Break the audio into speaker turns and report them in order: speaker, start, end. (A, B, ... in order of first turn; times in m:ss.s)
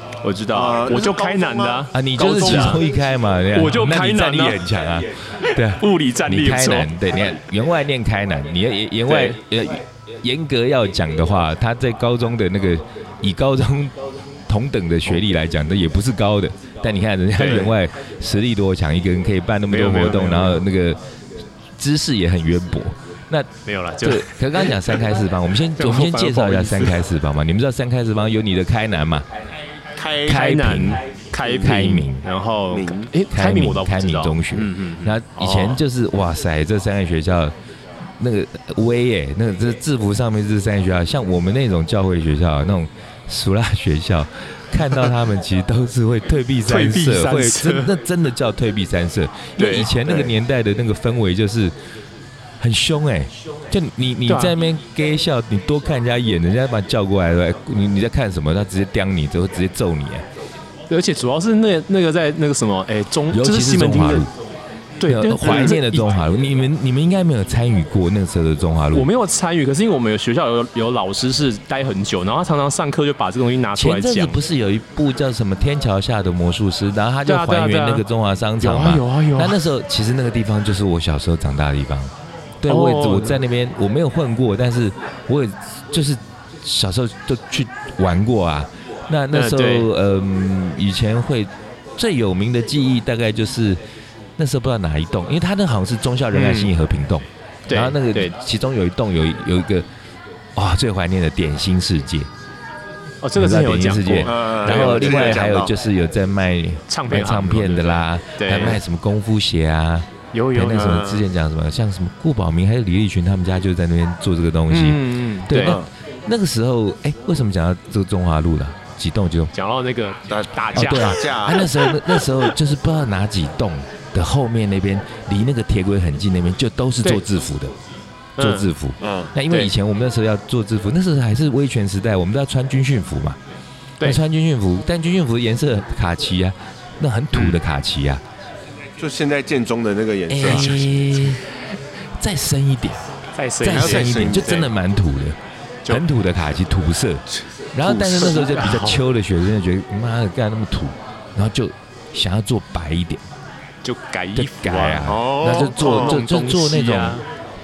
0:00.2-0:02.8 A
0:00.5-0:02.8 B
0:01.9-0:14.0 C
0:03.5-0:04.6 A
0:05.4-0:06.9 A
0:09.0-0:09.4 A
0:14.5-0:21.0 C
0:17.3-0:17.7 A
0:19.7-0:20.6 A
0:21.8-0:23.5 C
0:23.6-0:24.9 A
0:24.0-0:29.2 C
0:25.8-0:27.0 A
0:30.0-0:30.5 B
0:30.2-0:32.3 C
0:30.2-0:35.8 A
0:31.4-0:31.8 B
0:32.7-0:33.1 B
0:33.3-0:37.5 C
0:38.2-0:51.7 C
0:46.6-0:47.9 A
0:49.6-0:50.2 A
0:52.6-1:00.2 C
0:54.3-0:54.5 A
1:00.9-1:04.3 A
1:03.3-1:04.3 C
1:05.0-1:06.1 A
1:05.0-1:09.1 C
1:08.9-1:14.4 A
1:13.7-1:33.8 C
1:17.2-1:18.0 A
1:18.6-1:19.6 A
1:22.7-1:23.4 A
1:29.3-1:29.9 A
1:34.4-1:39.9 C
1:36.3-1:36.7 A
1:37.7-1:38.3 A
1:40.5-1:42.3 C
1:43.2-1:45.5 A
1:43.4-1:59.5 C
1:44.2-1:45.7 B
1:46.9-1:48.8 A
1:50.3-1:51.1 A
1:50.7-1:51.2 B
1:54.7-1:55.8 A
1:55.5-1:55.9 B
1:59.5-2:02.0 A
2:00.3-2:01.7 B
2:00.7-2:07.7 C
2:08.4-2:08.7 A
2:08.4-2:13.4 C
2:09.0-2:09.3 B
2:14.0-2:18.2 C
2:17.3-2:17.6 A
2:19.0-2:20.9 B
2:20.3-2:21.4 C
2:22.2-2:23.0 C
2:23.3-2:24.7 A
2:23.6-2:33.2 C
2:23.7-2:24.7 B
2:27.3-2:28.6 B
2:28.2-2:29.0 A
2:33.8-2:37.2 A
2:34.3-2:37.2 C
2:35.0-2:36.2 B